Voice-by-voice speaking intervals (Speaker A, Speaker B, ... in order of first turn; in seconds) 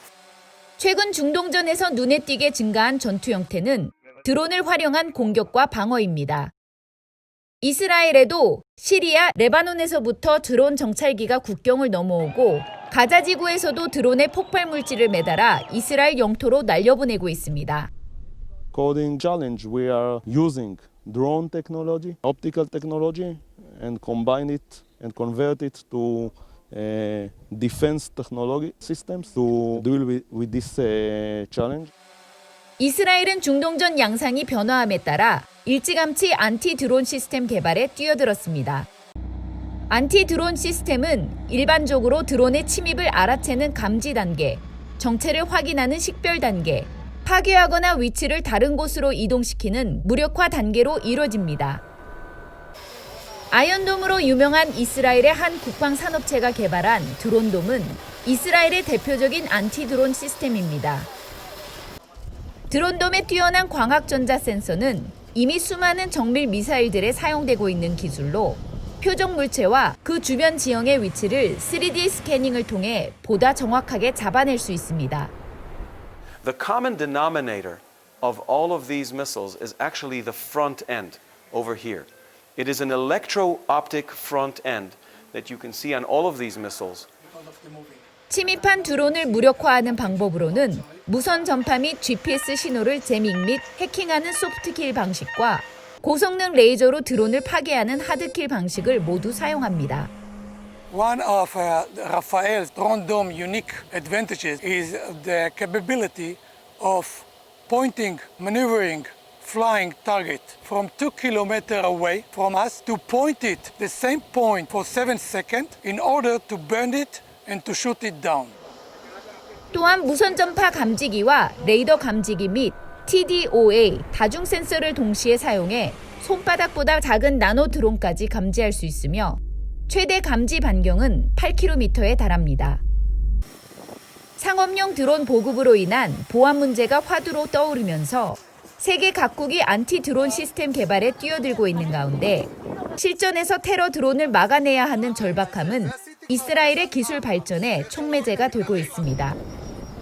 Speaker A: 0.8-6.5, 7.6-17.9, 32.8-38.9, 39.9-51.8, 53.5-61.1, 62.7-75.3, 88.3-100.1, 119.7-132.8, 134.4-149.4
Speaker B: 18.7-31.9
Speaker C: 76.4-87.1
Speaker D: 100.9-118.5